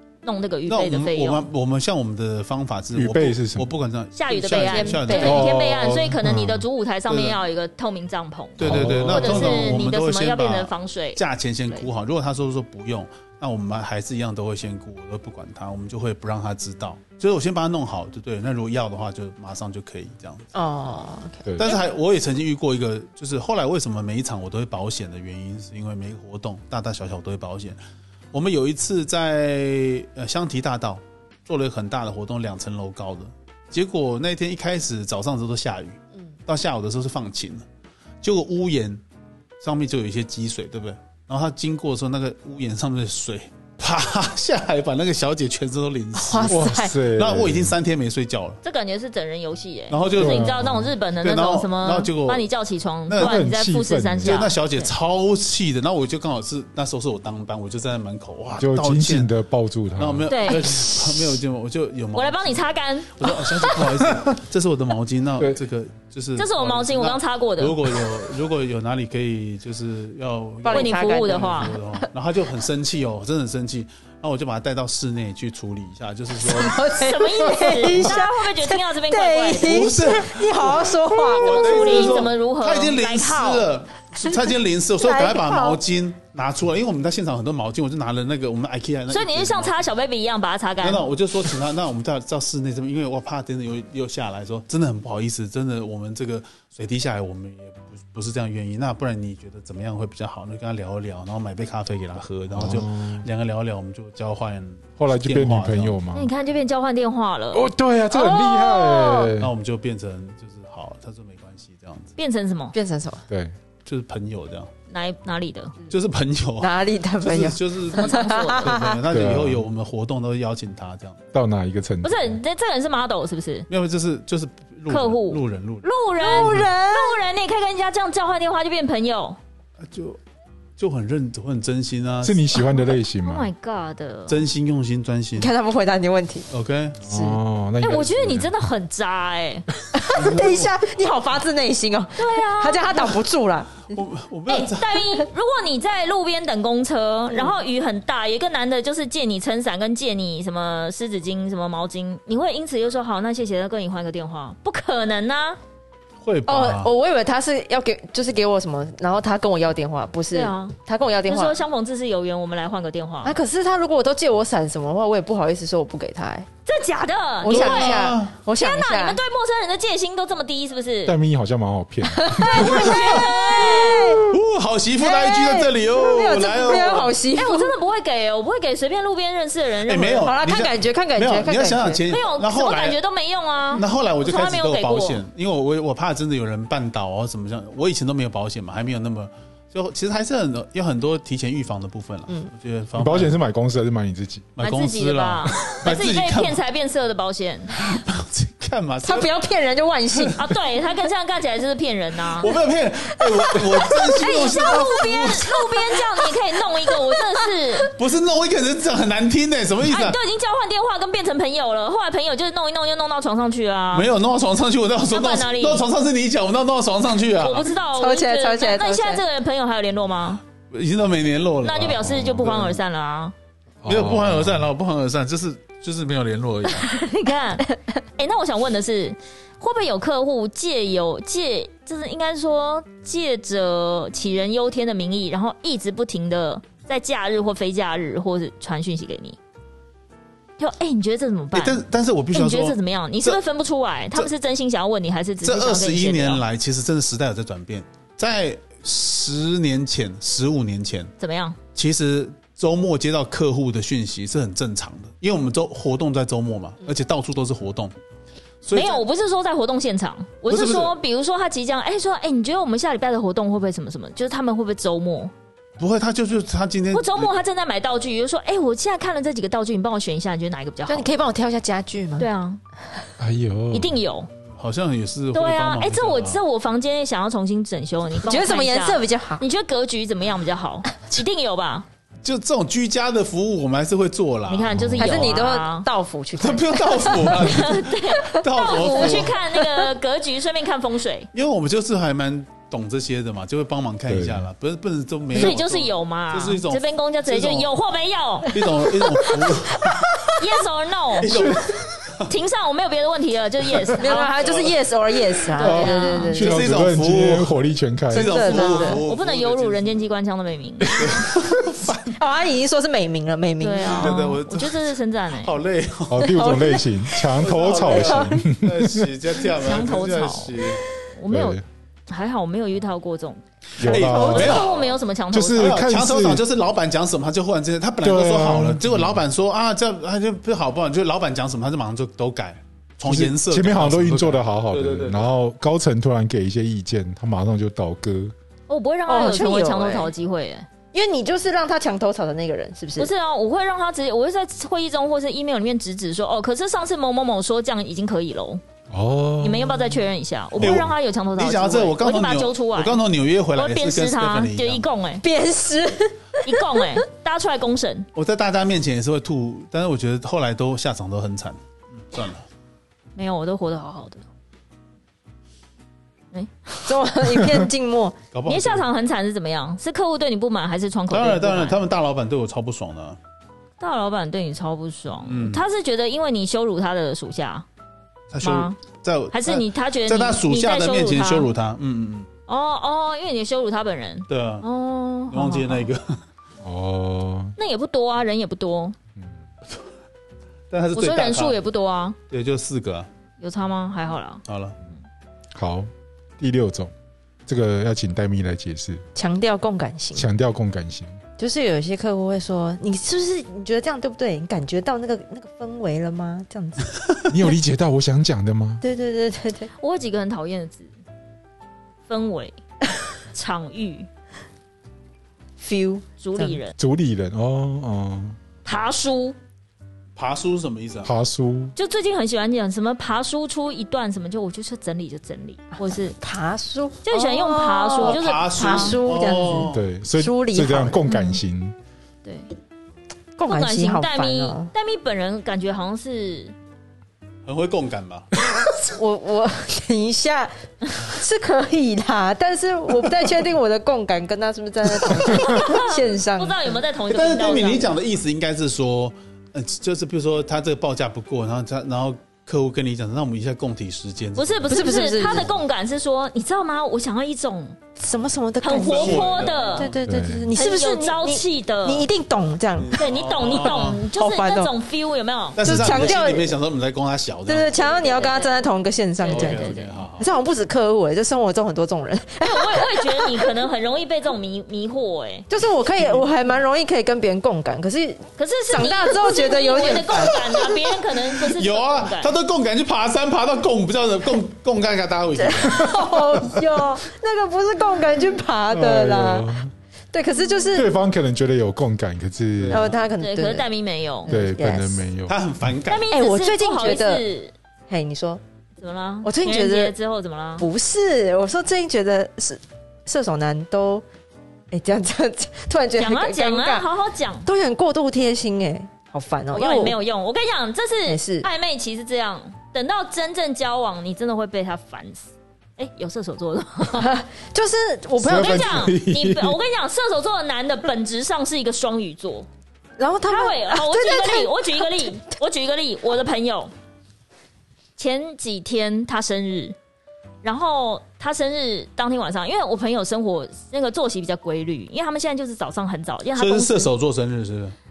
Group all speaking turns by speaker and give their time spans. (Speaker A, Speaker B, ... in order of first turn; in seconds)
Speaker A: 0.2-1.5, 4.1-11.9, 48.6-54.9, 60.3-60.9, 62.1-63.8, 66.3-67.8, 70.7-71.8, 76.9-79.9, 81.1-83.7, 89.1-91.0, 106.1-109.3, 112.2-112.7, 114.9-115.8, 117.9-118.7, 122.0-123.7, 124.9-129.4, 133.2-134.4, 137.8-139.7, 142.2-143.1, 144.5-155.6, 160.3-163.4, 166.7-171.1, 172.4-174.2, 176.8-180.3, 182.1-185.2, 194.6-197.8, 200.3-202.5, 204.2-207.9, 209.8-214.1, 215.1-215.9, 217.4-220.4, 221.6-223.3, 226.7-239.4, 240.6-241.8, 242.3-246.4, 251.2-251.6, 258.7-265.3, 266.9-271.1, 272.2-272.6, 273.7-274.3, 275.3-281.9, 284.5-285.9, 287.3-291.3, 295.3-298.6, 300.4-301.3, 302.2-304.3, 305.6-306.4, 308.5-311.2, 313.6-315.6, 319.5-320.6, 321.1-323.4, 324.0-325.8, 338.7-340.7, 343.0-348.6, 349.4-353.0, 353.5-355.2, 356.4-358.1, 363.1-364.2, 366.3-367.0, 368.4-371.8, 373.8-377.6, 378.4-378.8, 379.3-381.5, 382.5-385.9, 387.6-388.9, 390.9-392.2, 393.4-394.4, 409.8-410.9, 412.1-412.6, 413.3-414.1, 416.2-416.7, 418.6-419.4, 421.8-426.1, 427.0-429.0, 431.1-431.4, 433.4-436.5, 445.0-447.9, 454.4-457.8, 458.6-459.9, 460.5-462.1, 462.9-465.6, 467.9-468.6, 469.2-470.1, 472.4-475.5, 478.4-482.3, 493.2-494.3, 495.9-497.5, 498.8-500.7, 506.0-507.5, 509.5-517.1, 518.2-522.5, 523.3-526.7, 528.0-529.8, 530.4-536.9
Speaker B: 0.7-5.5, 7.1-7.4, 8.6-20.5, 21.6-27.8, 28.3-37.6, 38.2-39.0, 39.6-48.6, 49.9-52.5, 53.1-53.4, 54.2-59.3, 60.0-76.8, 77.8-78.2, 79.6-89.8, 90.8-106.0, 109.4-112.1, 113.8-114.7, 115.9-121.2, 123.7-126.7, 129.8-130.2, 130.8-132.6, 134.3-135.5, 136.5-137.0, 140.1-140.7, 143.9-145.1, 156.2-156.9, 167.5-168.4, 174.2-177.1, 179.8-183.0, 183.7-193.4, 194.6-196.6, 197.7-199.4, 202.4-205.5, 207.9-210.2, 213.9-217.7, 220.7-222.8, 223.8-226.9, 241.5-243.4, 245.4-251.1, 251.7-257.9, 258.6-259.0, 260.5-260.9, 265.8-267.3, 274.6-276.4, 282.2-284.8, 286.4-289.4, 291.3-297.7, 298.4-300.2, 301.2-302.3, 304.3-304.8, 306.3-307.6, 308.1-310.0, 310.9-312.1, 313.9-316.6, 317.3-320.8, 323.8-325.0, 325.6-335.3, 350.6-354.8, 358.1-362.4, 368.3-368.9, 371.1-373.2, 375.2-375.6, 378.3-382.3, 384.3-384.6, 385.3-386.2, 390.7-391.6, 392.3-393.1, 394.5-394.8, 420.1-421.1, 428.0-429.8, 437.4-438.3, 447.1-455.5, 458.7-460.0, 462.8-464.0, 465.6-468.2, 469.2-470.3, 475.9-476.3, 481.5-485.9, 492.6-493.0, 495.3-496.1, 536.4-537.8
Speaker C: 2.9-3.7, 5.2-6.7, 8.6-9.8, 21.4-21.8, 46.4-47.8, 50.1-50.9, 53.2-54.5, 58.6-60.4, 102.5-103.2, 105.0-106.3, 107.5-109.5, 113.3-113.5, 119.1-119.6, 121.3-122.4, 132.2-133.5, 137.0-138.5, 171.1-173.0, 192.9-194.5, 221.9-222.6, 223.8-224.7, 273.2-274.0, 284.7-285.3, 294.1-294.5, 301.3-301.8, 305.6-308.6, 316.1-319.1, 321.3-321.6, 323.8-324.7, 325.3-326.4, 328.0-329.2, 333.0-338.3, 348.9-350.0, 350.6-350.9, 386.6-387.5, 395.5-396.9, 397.5-399.0, 400.1-401.2, 407.3-408.8, 416.8-418.4, 421.0-421.7, 429.6-431.7, 460.0-460.5, 485.8-486.2, 488.7-489.7, 490.7-492.9, 494.3-495.4, 518.2-519.6
Speaker D: 4.5-5.4, 20.5-21.5, 46.1-47.0, 70.6-72.1, 76.3-82.2, 85.0-85.8, 112.7-113.2, 116.6-119.0, 126.2-127.2, 135.4-136.5, 137.1-137.4, 139.9-144.0, 147.3-147.6, 156.5-161.6, 163.2-166.5, 167.4-169.2, 172.1-174.3, 175.0-177.7, 180.2-182.0, 199.0-200.5, 203.1-207.5, 217.9-219.2, 270.9-272.3, 278.1-279.4, 285.0-287.7, 288.8-289.8, 299.2-299.9, 304.0-306.7, 308.1-309.0, 311.7-314.2, 316.2-318.4, 324.1-324.6, 339.1-340.1, 340.9-343.1, 355.2-356.9, 366.9-368.1, 399.1-400.3, 401.4-407.0, 408.8-409.7, 415.6-416.6, 425.7-431.0, 433.4-434.7, 438.6-446.8, 454.7-455.5, 458.0-464.7, 465.6-466.6, 467.5-473.5, 475.5-480.8, 485.4-489.6, 490.1-490.9, 492.7-493.7, 494.2-495.1, 496.0-497.2, 497.9-498.4, 499.2-499.9, 500.6-504.0, 504.7-506.9, 507.4-510.0, 511.1-511.5, 516.9-518.8, 523.0-525.1